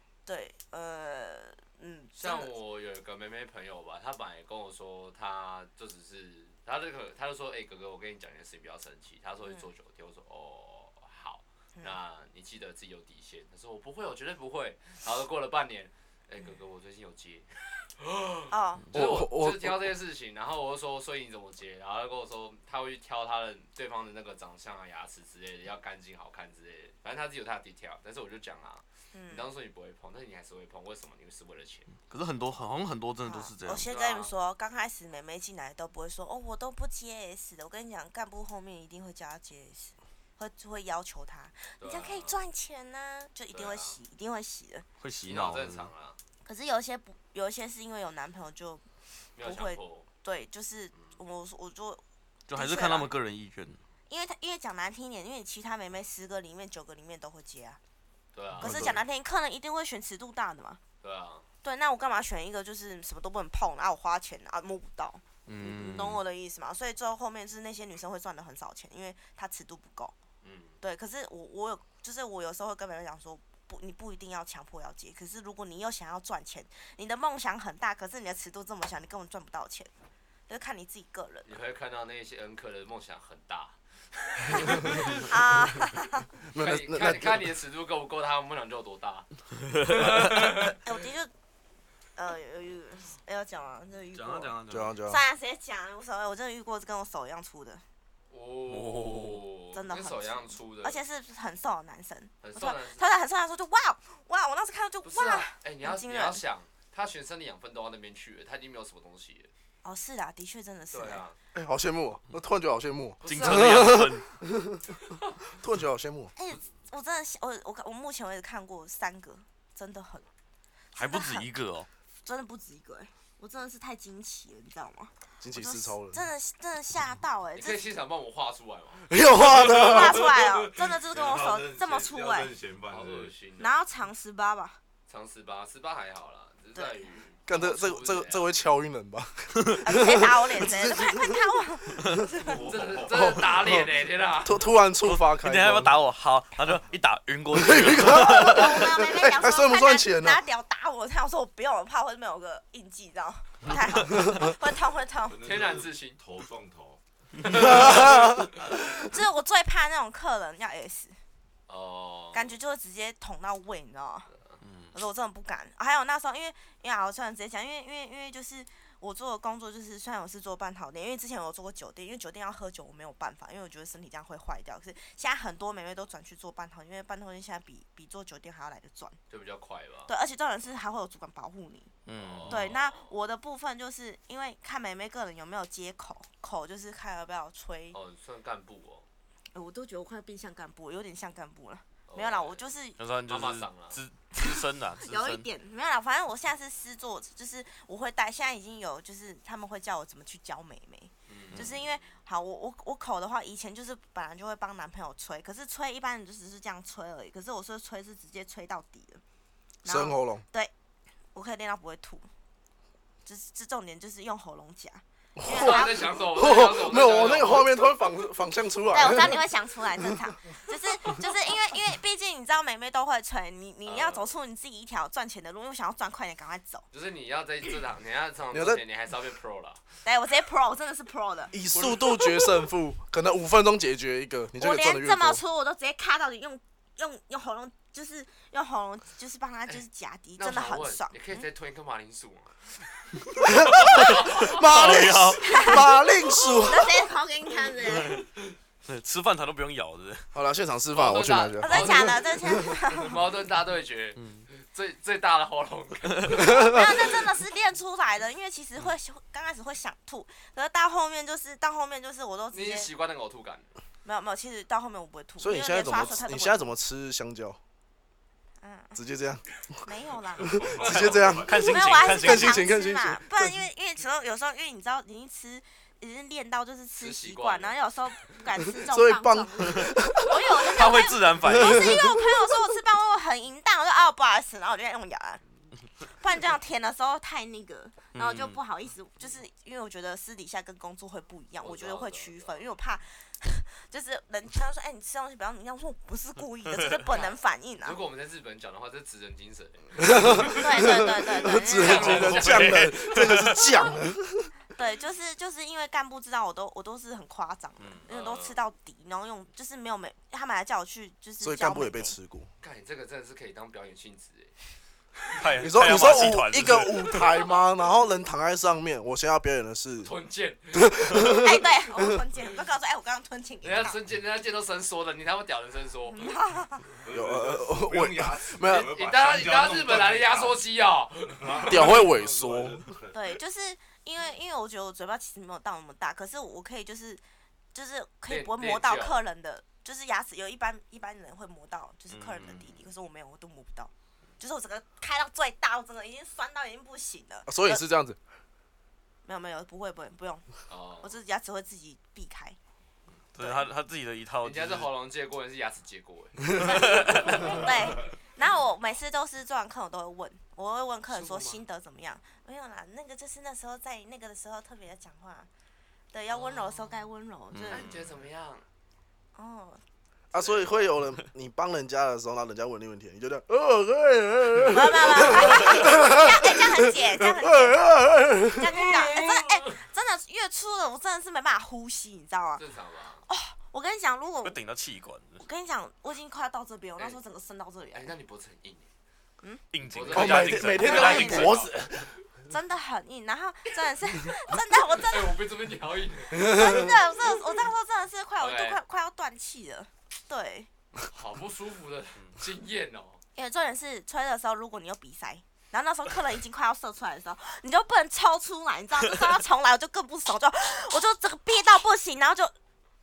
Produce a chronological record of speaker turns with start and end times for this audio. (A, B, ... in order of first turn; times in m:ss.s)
0:00.2-0:02.5 A
0:02.2-0:31.9 B
0:18.5-0:18.9 A
0:18.9-0:19.9 C
0:29.1-0:29.5 A
0:32.0-0:33.9 D
0:33.2-0:44.8 A
0:33.9-0:34.3 B
0:41.8-0:42.4 B
0:43.5-0:44.0 B
0:45.0-0:45.9 D
0:45.2-0:46.2 B
0:46.4-0:48.8 A
0:49.4-0:50.1 B
0:49.4-0:52.0 A
0:52.5-0:53.8 D
0:52.5-0:53.1 A
0:54.1-0:57.8 A
0:58.3-0:58.9 B
0:58.6-1:00.8 A
0:58.6-0:58.9 D
0:58.6-0:58.9 C
1:01.0-1:01.4 B
1:01.6-1:10.1 A
1:05.4-1:06.2 D
1:10.4-1:10.8 B
1:10.8-1:19.9 A
1:20.5-1:21.5 A
1:21.5-1:25.2 B
1:24.5-1:26.3 A
1:26.5-1:27.5 C
1:26.5-1:29.3 B
1:29.7-1:30.5 D
1:29.8-1:30.8 B
1:30.6-1:31.3 A
1:32.2-1:37.8 A
1:34.1-1:34.9 D
1:34.7-1:35.2 C
1:38.3-1:41.0 B
1:38.7-1:39.4 D
1:39.7-1:46.4 A
1:42.4-1:43.1 B
1:45.0-1:49.5 B
1:49.8-1:51.2 A
1:50.9-1:51.4 B
1:51.5-1:54.8 C
1:53.2-1:53.9 B
1:53.2-1:54.2 D
1:55.5-1:56.3 C
1:56.4-2:00.3 A
2:00.9-2:01.5 A
2:00.9-2:01.9 D
2:02.2-2:07.8 A
2:05.4-2:06.2 C
2:07.6-2:09.9 B
2:09.1-2:10.3 C
2:09.6-2:12.5 A
2:10.5-2:13.3 E
2:12.9-2:13.8 B
2:13.6-2:14.8 A
2:15.1-2:18.4 B
2:16.7-2:17.0 A
2:17.5-2:21.4 C
2:19.8-2:22.6 A
2:22.4-2:23.7 E
2:22.6-2:24.6 B
2:23.1-2:26.0 C
2:25.0-2:29.0 D
2:27.5-2:30.4 C
2:28.2-2:35.4 A
2:34.1-2:34.5 C
2:35.3-2:37.0 E
2:35.4-2:36.2 B
2:37.4-2:37.7 D
2:37.5-2:38.4 B
2:37.5-2:38.3 E
2:37.6-2:38.9 C
2:39.0-2:41.2 A
2:41.7-2:42.5 B
2:42.3-2:44.3 A
2:44.3-2:44.6 B
2:44.6-2:44.9 D
2:44.9-2:59.2 A
2:59.3-3:00.1 B
3:00.1-3:01.9 A
3:02.0-3:02.7 D
3:02.2-3:03.1 B
3:02.4-3:08.0 A
3:07.9-3:09.0 B
3:09.5-3:13.0 A
3:12.1-3:12.6 B
3:13.0-3:15.5 D
3:13.3-3:14.0 B
3:14.3-3:29.2 A
3:21.3-3:22.0 B
3:21.5-3:21.8 D
3:29.8-3:30.7 A
3:29.8-3:30.4 C
3:31.3-3:32.3 A
3:33.2-3:36.1 A
3:35.4-3:39.4 C
3:35.5-3:37.7 B
3:38.9-3:46.8 A
3:43.8-3:44.4 B
3:46.9-3:49.8 B
3:48.5-3:48.8 C
3:50.0-3:51.6 A
3:51.5-3:55.4 C
3:51.7-3:52.0 B
3:52.1-3:52.5 A
3:54.6-4:01.4 A
4:00.4-4:02.8 B
4:03.5-4:07.1 C
4:03.9-4:05.8 D
4:03.9-4:04.6 B
4:05.4-4:05.9 A
4:06.6-4:08.2 A
4:07.8-4:08.3 D
4:08.8-4:10.3 D
4:10.3-4:12.9 C
4:10.9-4:12.2 B
4:11.6-4:13.2 A
4:12.9-4:16.6 B
4:14.2-4:14.5 D
4:16.0-4:16.4 D
4:16.4-4:22.9 A
4:16.5-4:16.9 C
4:22.5-4:23.7 B
4:24.0-4:26.7 A
4:25.4-4:27.6 C
4:28.6-4:29.0 A
4:29.0-4:33.5 C
4:29.8-4:30.7 A
4:30.4-4:32.1 E
4:30.8-4:31.0 B
4:30.8-4:32.7 D
4:31.6-4:45.4 A
4:37.0-4:37.8 B
4:38.8-4:40.6 C
4:40.7-4:42.2 D
4:41.4-4:41.9 C
4:46.0-4:58.0 A
4:48.1-4:48.6 D
4:51.6-4:52.6 B
4:56.7-4:57.1 D
4:57.1-5:00.9 B
5:00.0-5:04.5 C
5:00.5-5:02.4 A
5:01.7-5:02.9 B
5:01.8-5:03.8 D
5:04.7-5:12.2 A
5:07.8-5:08.0 D
5:08.0-5:08.6 B
5:11.4-5:12.5 C
5:12.6-5:14.5 B
5:15.4-5:17.2 D
5:15.6-5:20.1 C
5:20.0-5:21.0 B
5:20.7-5:22.2 C
5:21.3-5:24.0 A
5:23.6-5:26.3 B
5:26.1-5:26.9 A
5:27.0-5:30.6 E
5:27.1-5:28.9 C
5:28.6-5:32.0 B
5:31.3-5:33.3 E
5:31.7-5:32.9 C
5:33.1-5:37.2 A
5:37.7-5:47.8 A
5:38.3-5:39.2 B
5:42.1-5:42.6 D
5:42.4-5:42.7 B
5:47.5-5:48.2 C
5:49.2-5:50.5 A
5:50.7-5:51.1 B
5:51.0-5:52.6 A
5:53.3-5:54.9 D
5:53.4-5:53.6 A
5:54.4-5:57.7 B
5:56.6-6:05.5 A
5:56.6-5:57.6 D
6:01.1-6:01.6 B
6:06.1-6:07.9 A
6:06.3-6:06.8 B
6:07.5-6:08.0 D
6:07.7-6:08.6 B
6:09.3-6:09.8 A
6:10.3-6:18.8 C
6:10.3-6:10.9 B
6:14.7-6:17.8 A
6:18.5-6:22.6 A
6:18.9-6:19.6 B
6:22.6-6:23.2 B
6:23.2-6:24.6 A
6:24.4-6:25.4 D
6:25.4-6:28.1 A
6:27.9-6:28.9 B
6:29.7-6:31.6 D
6:29.9-6:31.9 B
6:30.1-6:32.2 C
6:30.8-6:31.5 A
6:32.5-6:35.4 A
6:35.0-6:36.4 B
6:36.4-6:37.0 C
6:36.4-6:40.7 A
6:38.4-6:38.8 B
6:41.1-6:43.2 B
6:43.3-6:52.5 A